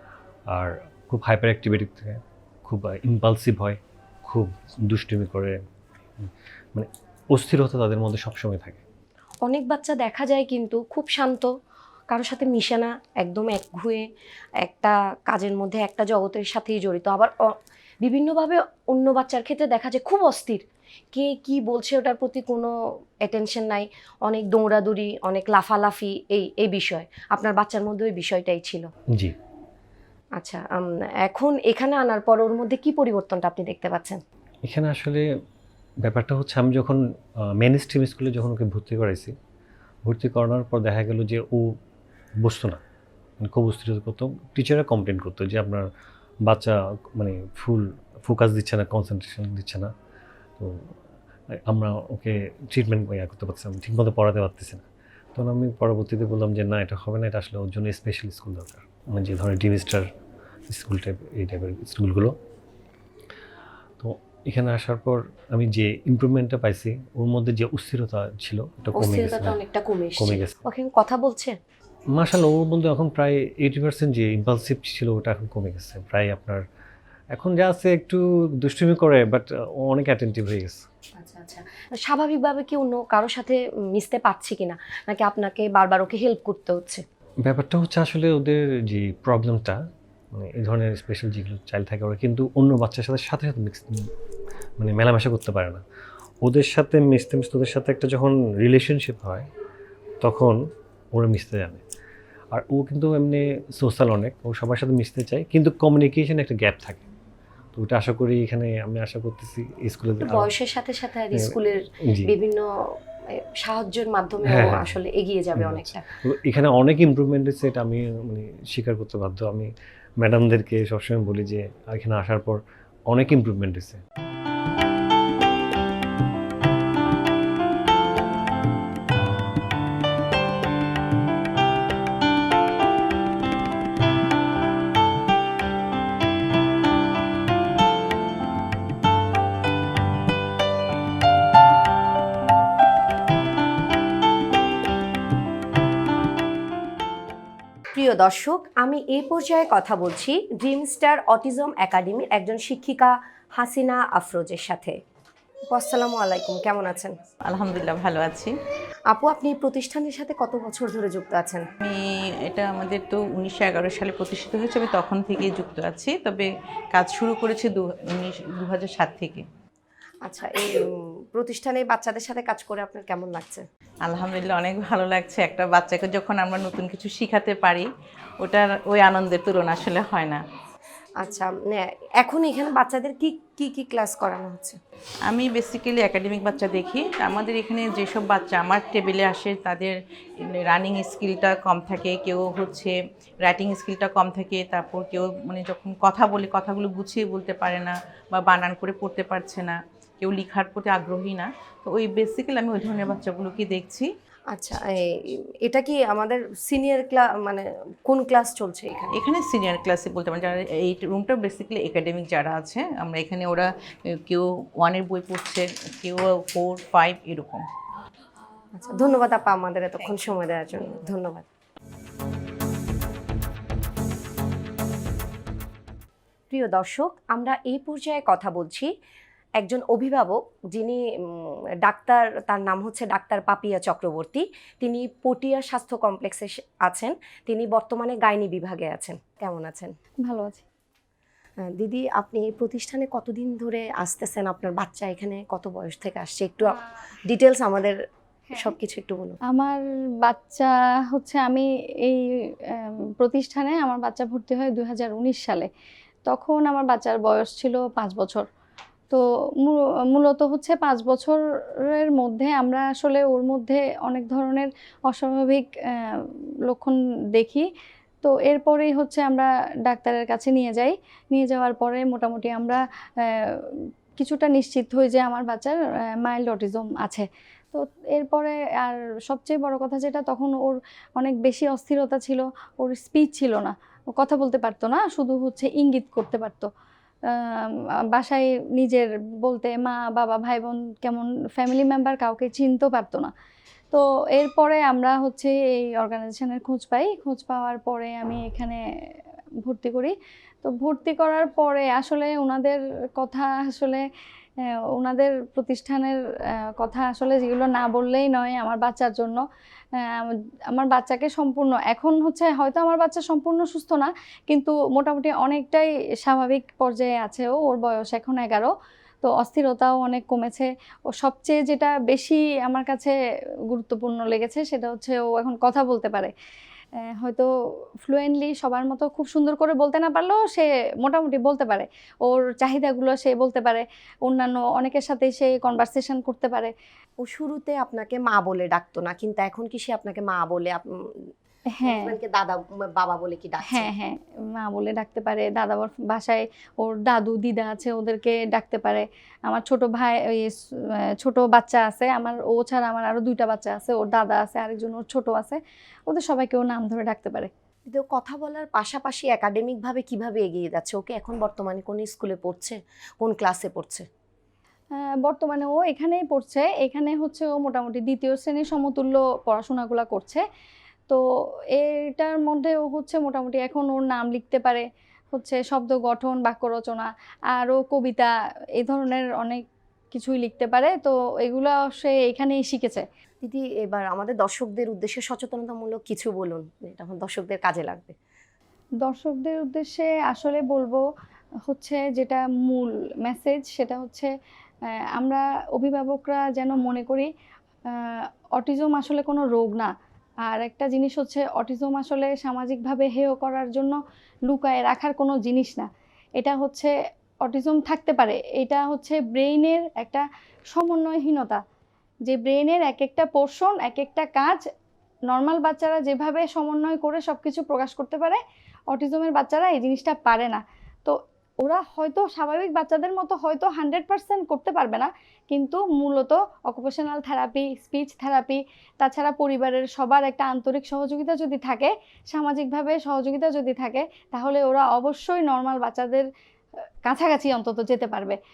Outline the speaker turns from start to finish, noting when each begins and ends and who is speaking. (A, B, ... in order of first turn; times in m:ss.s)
0:00.5-0:05.6 A
0:06.2-0:08.8 A
0:09.4-0:11.5 B
0:12.1-0:14.1 B
0:14.6-0:28.9 B
0:30.4-0:34.2 B
0:34.7-0:35.2 A
0:36.0-0:37.0 A
0:37.6-0:39.4 A
0:40.1-0:41.8 A
0:42.4-0:42.8 A
0:43.4-0:45.9 A
0:46.4-0:49.9 A
0:50.6-0:50.9 A
0:51.5-0:54.8 A
0:55.4-1:00.1 A
1:00.7-1:02.4 A
1:04.0-1:09.6 A
1:09.0-1:11.6 B
1:10.2-1:10.6 A
1:12.1-1:16.6 A
1:17.3-1:20.8 A
1:21.2-1:27.0 B
1:27.4-1:29.8 A
1:30.3-1:34.1 A
1:34.8-1:35.8 A
1:36.4-1:39.5 A
1:40.2-1:40.6 A
1:41.1-1:41.8 A
1:42.5-1:47.1 A
1:47.8-1:50.5 A
1:50.2-1:56.0 B
1:54.5-1:55.0 A
1:55.6-1:59.7 A
2:00.2-2:02.6 A
2:03.1-2:04.0 A
2:27.9-2:35.0 B
2:35.7-2:37.2 B
2:37.5-2:38.5 C
2:39.1-2:41.7 B
2:41.8-2:49.4 C
2:50.2-2:53.6 B
2:54.0-2:57.9 C
2:58.4-3:00.4 C
3:01.2-3:04.8 B
3:05.3-3:24.1 C
3:24.5-3:29.2 B
3:29.1-3:37.6 C
3:38.8-3:41.5 B
3:46.5-3:48.9 B
3:49.6-4:00.0 B
4:00.2-4:00.6 D
4:01.6-4:08.0 B
4:08.6-4:09.4 B
4:09.5-4:15.7 D
4:16.3-4:18.5 D
4:19.1-4:27.7 D
4:28.2-4:33.5 D
4:34.2-4:46.7 D
4:47.3-4:53.3 D
4:53.9-4:58.8 D
4:59.6-5:04.0 D
5:05.0-5:09.4 D
5:10.0-5:18.7 D
5:19.2-5:20.7 D
5:21.2-5:23.2 D
5:23.7-5:26.3 D
5:27.0-5:27.5 D
5:28.0-5:36.7 D
5:37.2-5:41.3 B
5:41.8-5:42.1 D
5:41.8-5:43.9 B
5:43.7-5:50.6 D
5:51.2-5:57.5 D
5:57.9-6:04.1 B
6:05.0-6:10.4 D
6:11.7-6:23.1 D
6:23.4-6:28.2 B
6:29.0-6:31.0 D
6:31.7-6:34.3 D
6:35.2-6:37.3 D
6:38.6-6:39.9 D
6:40.5-6:51.6 D
6:52.3-6:54.6 D
6:55.3-6:58.4 D
6:58.9-7:16.3 D
7:17.0-7:18.4 D